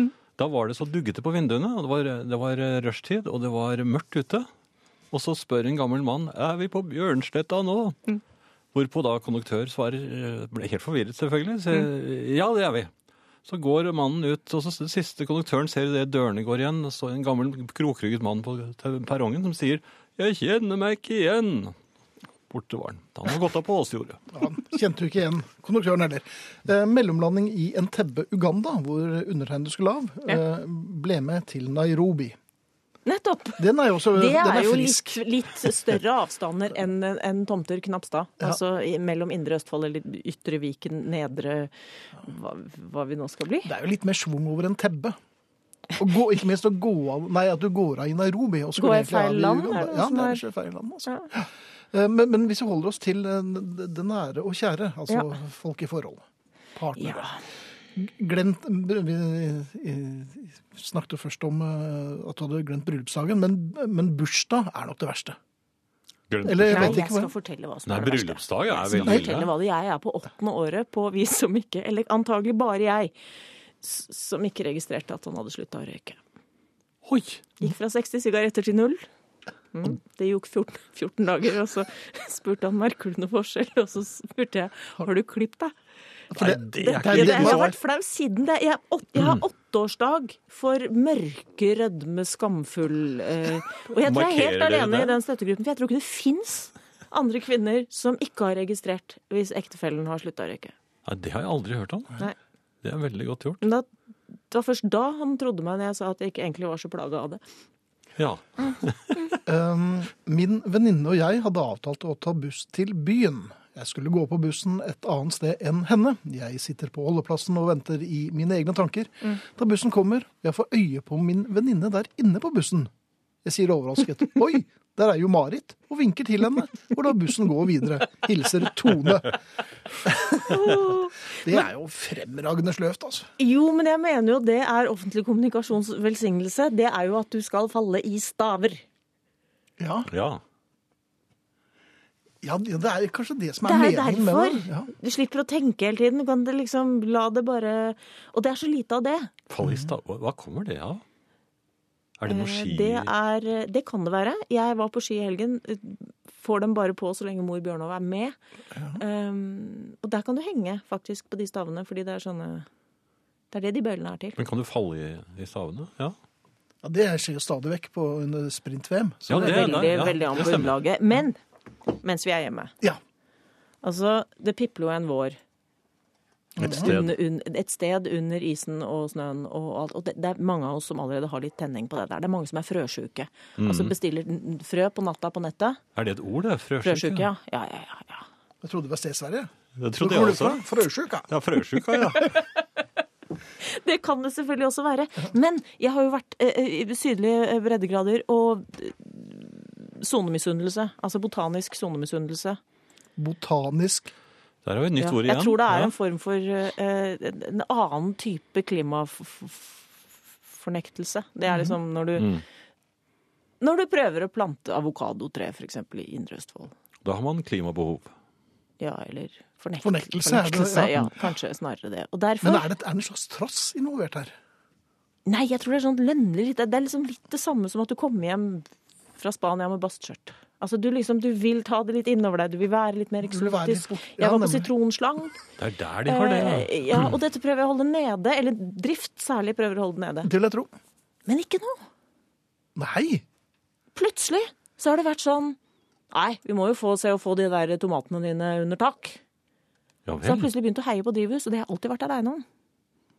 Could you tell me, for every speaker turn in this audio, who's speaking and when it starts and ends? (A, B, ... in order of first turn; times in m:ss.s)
0:00.4-0:04.5 A
0:05.1-0:08.0 A
0:08.7-0:12.9 A
0:13.4-0:21.8 A
0:22.5-0:24.2 A
0:24.3-0:32.4 B
0:33.0-0:43.7 C
0:33.6-0:35.7 B
0:43.6-0:45.2 B
0:46.0-0:56.2 B
0:48.8-0:50.4 C
0:56.7-0:57.3 B
0:57.0-0:57.4 C
0:57.9-1:05.4 B
1:06.3-1:07.0 A
1:06.4-1:07.3 B
1:06.7-1:13.1 C
1:07.8-1:09.5 A
1:08.9-1:09.3 B
1:13.8-1:16.2 C
1:17.0-1:17.4 A
1:17.6-1:19.0 C
1:19.7-1:25.7 C
1:26.3-1:27.8 B
1:26.4-1:27.7 A
1:26.8-1:40.7 C
1:29.2-1:29.4 A
1:34.0-1:35.2 A
1:41.0-1:42.2 A
1:42.8-1:43.6 A
1:43.6-1:43.9 C
1:44.5-1:47.4 C
1:48.2-1:49.4 A
1:49.4-2:02.9 B
2:03.4-2:09.4 B
2:10.0-2:13.3 B
2:10.5-2:11.6 C
2:13.4-2:18.8 C
2:19.8-2:20.1 B
2:20.1-2:20.4 A
2:22.4-2:24.9 B
2:23.6-2:29.3 C
2:29.5-2:31.0 A
2:29.6-2:29.9 B
2:32.2-2:33.1 A
2:32.3-2:38.4 C
2:38.7-2:39.0 B
2:39.0-2:42.7 C
2:43.5-2:44.4 C
2:44.4-2:46.1 A
2:46.8-2:50.1 B
2:49.3-2:50.8 A
2:49.3-2:51.4 C
2:52.0-2:52.7 C
2:53.8-2:55.4 C
2:56.6-2:56.9 B
2:56.6-2:57.2 A
2:56.7-3:05.8 C
3:03.6-3:03.9 A
3:05.9-3:07.3 A
3:06.8-3:08.2 C
3:08.6-3:11.3 B
3:09.8-3:10.7 A
3:11.3-3:12.4 A
3:13.6-3:22.6 C
3:23.2-3:24.1 B
3:24.6-3:25.9 A
3:25.0-3:32.3 C
3:32.2-3:32.4 A
3:33.6-3:36.7 C
3:37.0-3:38.1 A
3:38.8-3:42.7 C
3:39.8-3:41.3 B
3:42.4-3:44.4 B
3:45.2-3:48.6 C
3:49.2-3:55.4 C
3:53.2-3:54.7 B
3:55.6-3:57.1 A
3:56.0-4:00.3 C
4:00.2-4:00.7 B
4:01.3-4:01.8 C
4:02.8-4:03.2 B
4:03.9-4:05.6 C
4:06.1-4:09.2 C
4:10.0-4:10.5 A
4:10.2-4:12.4 C